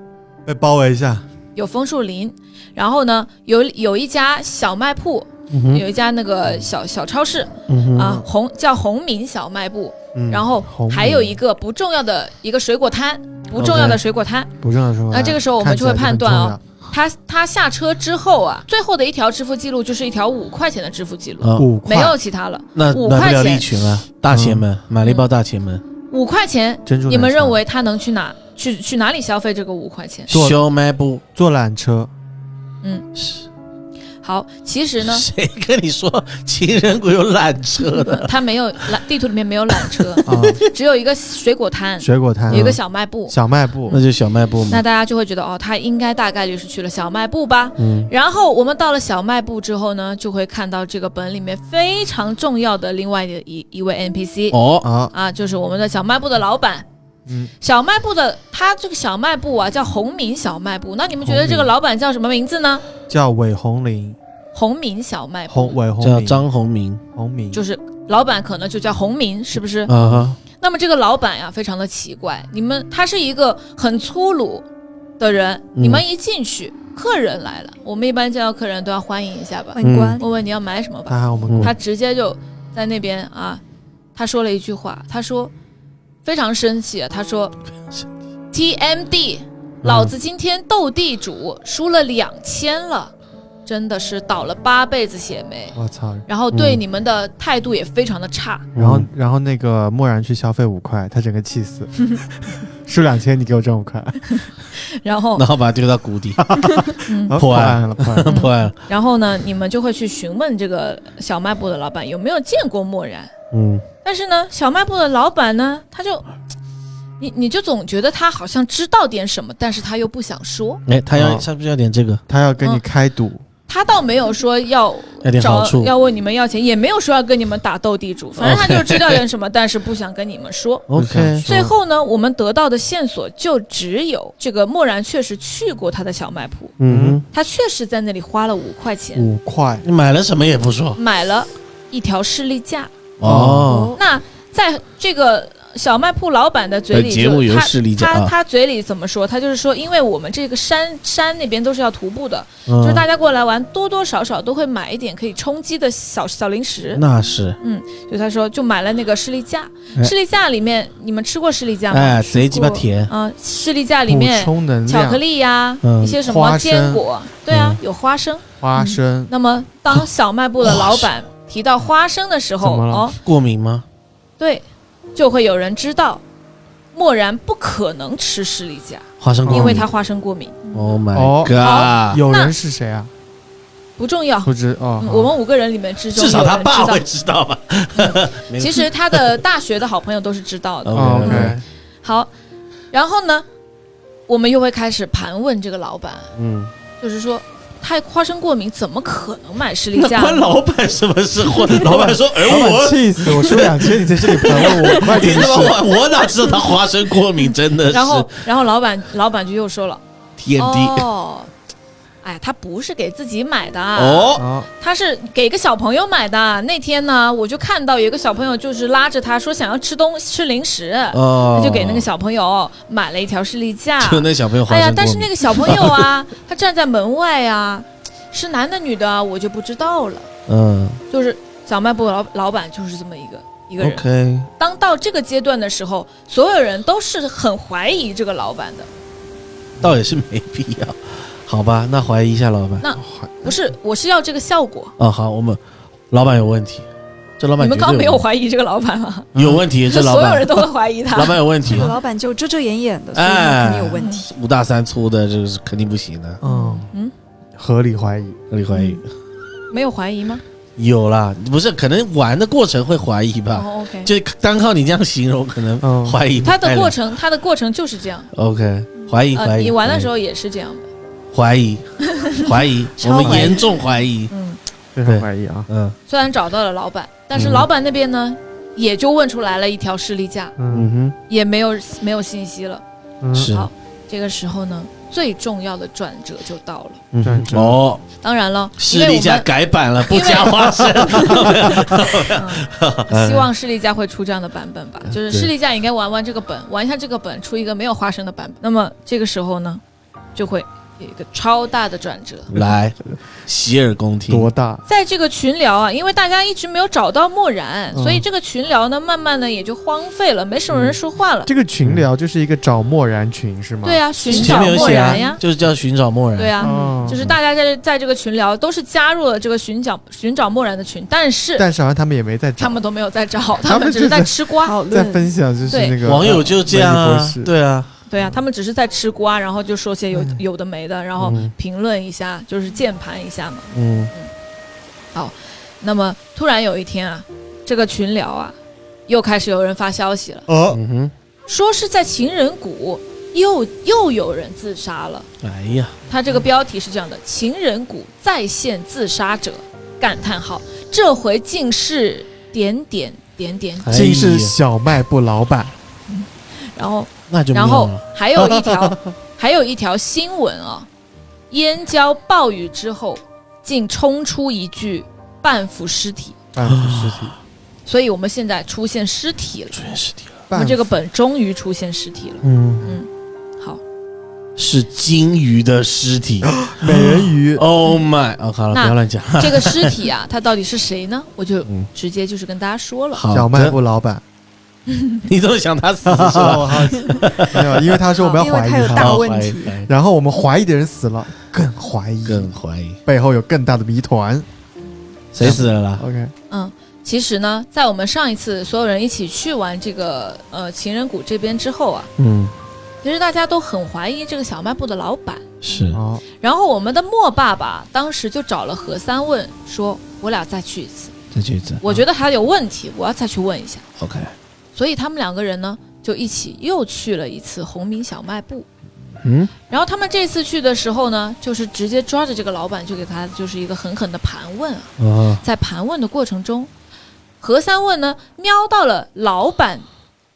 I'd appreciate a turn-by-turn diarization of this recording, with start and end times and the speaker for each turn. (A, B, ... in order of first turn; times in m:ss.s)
0:00.4-0:01.3 A
0:01.6-0:14.5 B
0:05.5-0:05.8 C
0:07.7-0:08.2 C
0:08.0-0:08.2 A
0:10.2-0:10.4 C
0:10.6-0:11.4 A
0:13.6-0:14.0 A
0:14.6-0:16.6 A
0:15.1-0:23.7 B
0:21.4-0:21.7 C
0:21.6-0:22.2 A
0:22.8-0:25.8 C
0:24.3-0:24.7 A
0:25.0-0:25.3 B
0:26.1-0:30.3 B
0:26.9-0:27.6 A
0:30.3-0:31.2 C
0:30.3-0:30.6 A
0:31.4-0:32.1 A
0:33.2-0:33.4 C
0:34.2-0:35.3 B
0:35.0-0:38.3 C
0:37.9-0:44.0 B
0:39.8-0:40.6 C
0:40.3-0:40.6 A
0:42.0-0:44.0 A
0:42.5-0:42.8 C
0:43.9-0:44.8 C
0:44.7-0:56.9 B
0:47.8-0:48.1 C
0:54.5-0:54.9 C
0:54.8-0:55.1 A
0:57.3-0:57.5 A
0:57.6-1:02.8 B
1:01.3-1:01.6 A
1:03.1-1:04.2 A
1:04.5-1:05.8 B
1:05.5-1:06.4 A
1:06.0-1:07.0 C
1:07.2-1:07.6 A
1:07.5-1:09.9 B
1:09.9-1:10.4 C
1:09.9-1:10.3 A
1:10.6-1:14.6 B
1:15.2-1:23.6 B
1:15.8-1:16.0 C
1:19.8-1:20.3 D
1:19.8-1:20.2 C
1:21.1-1:21.8 A
1:24.2-1:25.5 B
1:26.2-1:27.6 B
1:28.5-1:33.1 B
1:29.8-1:30.1 C
1:33.7-1:35.8 B
1:35.8-1:36.3 A
1:36.3-1:38.7 B
1:36.5-1:36.8 C
1:38.8-1:39.1 C
1:38.8-1:42.2 A
1:42.8-1:44.4 A
1:44.3-1:45.4 B
1:45.4-1:48.8 C
1:46.4-1:48.4 A
1:47.0-1:47.4 B
1:48.3-1:53.3 B
1:53.5-1:53.8 C
1:54.0-1:56.3 B
1:57.2-2:00.8 B
2:00.9-2:02.2 C
2:01.2-2:01.5 A
2:02.3-2:03.4 A
2:03.7-2:10.8 B
2:05.2-2:05.9 C
2:08.4-2:09.2 C
2:10.9-2:11.5 C
2:10.9-2:11.7 A
2:11.4-2:16.8 B
2:16.8-2:17.2 C
2:16.8-2:17.2 A
2:17.3-2:19.3 B
2:19.1-2:19.9 A
2:19.8-2:21.0 C
2:21.0-2:22.9 B
2:23.2-2:24.0 C
2:23.2-2:23.9 A
2:23.7-2:24.0 D
2:24.0-2:37.0 B
2:26.9-2:28.3 C
2:32.7-2:33.1 C
2:36.9-2:37.6 C
2:37.6-2:48.4 B
2:41.9-2:43.1 C
2:44.1-2:45.2 A
2:45.8-2:46.2 C
2:46.2-2:47.0 A
2:47.5-2:47.8 C
2:48.6-2:49.3 A
2:49.3-2:53.2 B
2:50.6-2:51.1 C
2:52.6-2:53.1 A
2:53.2-2:53.8 C
2:54.4-2:54.6 B
2:55.2-2:56.2 B
2:56.9-3:00.7 B
2:59.2-2:59.9 C
2:59.5-2:59.8 A
3:00.7-3:02.2 C
3:01.1-3:03.1 A
3:01.6-3:02.5 B
3:04.0-3:07.1 B
3:04.4-3:05.4 A
3:06.1-3:09.4 C
3:08.0-3:12.3 B
3:10.8-3:11.6 C
3:10.9-3:11.6 A
3:12.9-3:13.5 B
3:14.3-3:16.3 B
3:16.4-3:16.7 C
3:17.0-3:20.5 B
3:20.0-3:28.3 C
3:21.7-3:25.8 A
3:25.0-3:25.7 B
3:27.9-3:30.0 B
3:30.4-3:31.1 C
3:30.6-3:31.5 B
3:32.2-3:50.3 B
3:34.0-3:34.4 C
3:34.4-3:34.7 A
3:41.1-3:42.1 C
3:44.0-3:46.1 C
3:50.5-3:51.0 C
3:51.1-3:54.0 B
3:53.8-3:54.5 C
3:54.6-3:58.9 B
3:59.8-4:02.8 C
4:02.8-4:04.9 B
4:03.0-4:03.6 A
4:05.0-4:05.6 C
4:06.1-4:06.8 C
4:07.4-4:08.2 C
4:07.6-4:09.3 B
4:09.4-4:11.9 C
4:09.4-4:09.6 A
4:09.9-4:11.4 B
4:11.7-4:14.3 D
4:13.1-4:16.4 C
4:14.0-4:14.2 B
4:16.4-4:17.1 B
4:16.4-4:16.9 A
4:17.6-4:18.4 A
4:18.5-4:19.0 C
4:18.7-4:19.0 B
4:19.7-4:20.4 B
4:20.8-4:27.0 C
4:23.5-4:24.1 B
4:25.8-4:26.2 A
4:26.4-4:28.3 B
4:28.3-4:30.1 C
4:29.3-4:30.9 B
4:31.3-4:34.3 C
4:32.1-4:34.6 B
4:33.2-4:33.6 A
4:35.0-4:35.7 A
4:35.0-4:36.0 C
4:36.1-4:40.6 B
4:37.4-4:37.7 C
4:40.6-4:40.9 A
4:40.7-4:41.2 C
4:41.3-4:42.8 B
4:43.2-4:43.5 A
4:43.3-4:43.7 C
4:43.4-4:47.0 B
4:47.1-4:48.0 C
4:47.2-4:47.8 A
4:48.2-4:59.8 B
4:48.8-4:53.5 C
4:55.1-4:55.5 C
5:00.4-5:02.5 B
5:02.5-5:04.5 C
5:04.3-5:04.8 A
5:04.9-5:11.5 B
5:07.9-5:08.2 A
5:11.5-5:14.4 A
5:13.8-5:15.4 B
5:14.3-5:15.4 D
5:14.3-5:16.5 C
5:16.4-5:21.7 B
5:16.6-5:17.1 D
5:16.6-5:17.3 A
5:21.6-5:22.8 A
5:22.6-5:24.8 B
5:23.6-5:27.5 A
5:24.6-5:25.3 D
5:25.7-5:26.0 B
5:26.0-5:27.9 C
5:28.1-5:34.3 B
5:30.1-5:30.4 A
5:31.2-5:31.5 C
5:33.7-5:34.1 C
5:35.1-5:38.6 B
5:39.1-5:40.5 B
5:40.5-5:40.8 A
5:40.7-5:41.1 C
5:41.5-5:45.3 B
5:45.4-5:46.0 C
5:46.1-5:54.0 B
5:53.8-5:54.6 C
5:53.9-5:55.8 A
5:56.1-6:00.9 B
5:57.3-5:58.9 C
6:01.5-6:06.4 B
6:06.5-6:07.4 A
6:06.6-6:07.4 C
6:07.9-6:09.8 B
6:09.7-6:10.4 C
6:10.5-6:11.0 A
6:10.5-6:13.8 B
6:12.4-6:13.0 C
6:14.6-6:20.1 C
6:16.7-6:17.6 A
6:18.7-6:23.2 B
6:23.1-6:23.8 C
6:23.3-6:24.2 A
6:24.9-6:25.2 B
6:25.2-6:28.0 C
6:26.0-6:29.3 A
6:28.2-6:29.8 D
6:28.9-6:29.9 C
6:29.9-6:32.5 A
6:32.2-6:33.0 C
6:33.1-6:34.5 A
6:35.3-6:36.0 C
6:35.4-6:36.3 A
6:36.5-6:42.1 B
6:42.2-6:42.5 C
6:43.0-6:51.1 B
6:45.6-6:46.0 C
6:45.9-6:46.2 A
6:51.3-6:51.8 C
6:51.8-6:53.8 B
6:54.0-6:54.3 C
6:54.8-6:58.7 B
6:59.2-6:59.5 C
6:59.7-7:06.7 B
7:05.0-7:05.4 C
7:07.4-7:09.9 B